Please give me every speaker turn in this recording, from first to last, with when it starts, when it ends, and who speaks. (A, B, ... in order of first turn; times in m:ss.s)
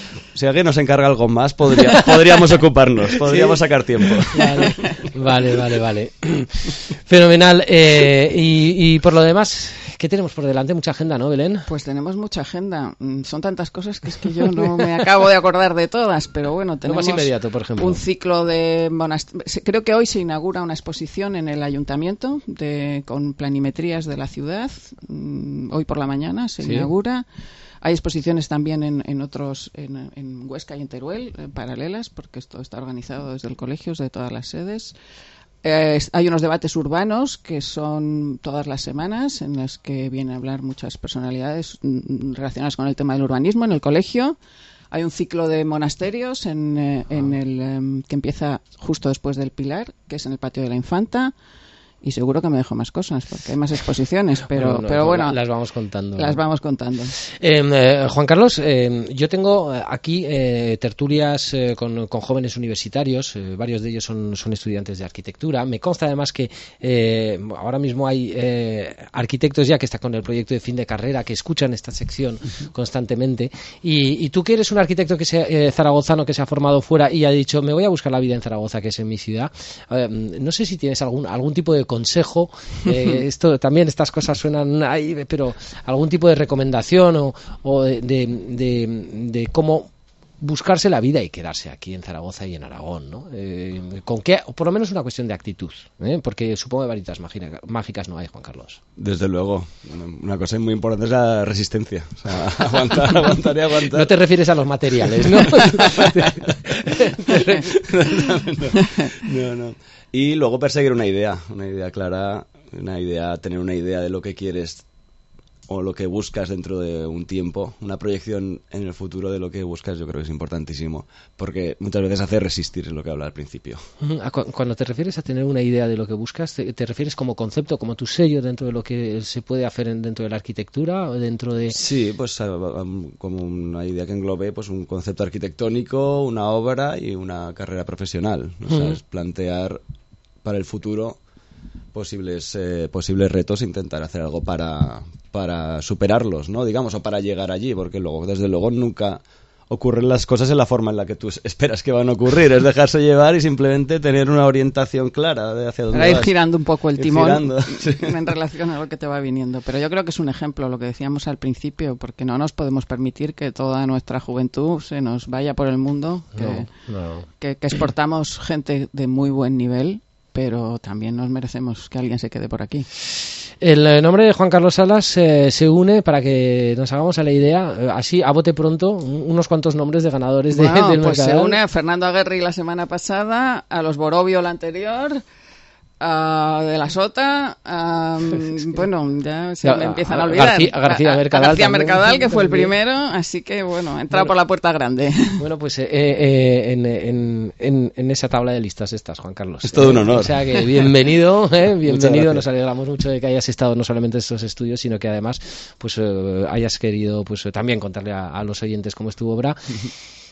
0:00.4-0:04.7 A
0:04.3-0:11.7 B
0:11.7-0:27.3 C
0:16.8-0:18.0 B
0:26.6-0:26.9 B
0:27.8-0:35.0 C
0:35.6-0:44.4 C
0:44.9-0:51.3 C
0:52.0-0:55.4 C
0:54.5-0:56.4 B
0:56.2-0:57.2 C
0:57.2-1:29.9 B
1:30.4-1:38.8 B
1:39.0-1:44.1 A
1:43.9-1:47.8 B
1:45.3-1:46.3 A
1:47.4-1:54.8 A
1:55.7-2:03.8 A
2:04.0-2:11.8 B
2:11.7-2:19.8 A
2:18.7-2:19.0 B
2:20.4-2:21.2 A
2:21.9-2:36.3 A
2:35.9-2:46.7 C
2:37.0-2:38.2 A
2:46.4-2:47.3 B
2:47.4-2:52.9 C
2:53.6-3:01.6 B
3:00.5-3:05.2 C
3:06.0-3:15.4 C
3:09.6-3:12.7 B
3:15.4-3:29.8 B
3:19.6-3:20.4 A
3:21.8-3:22.4 A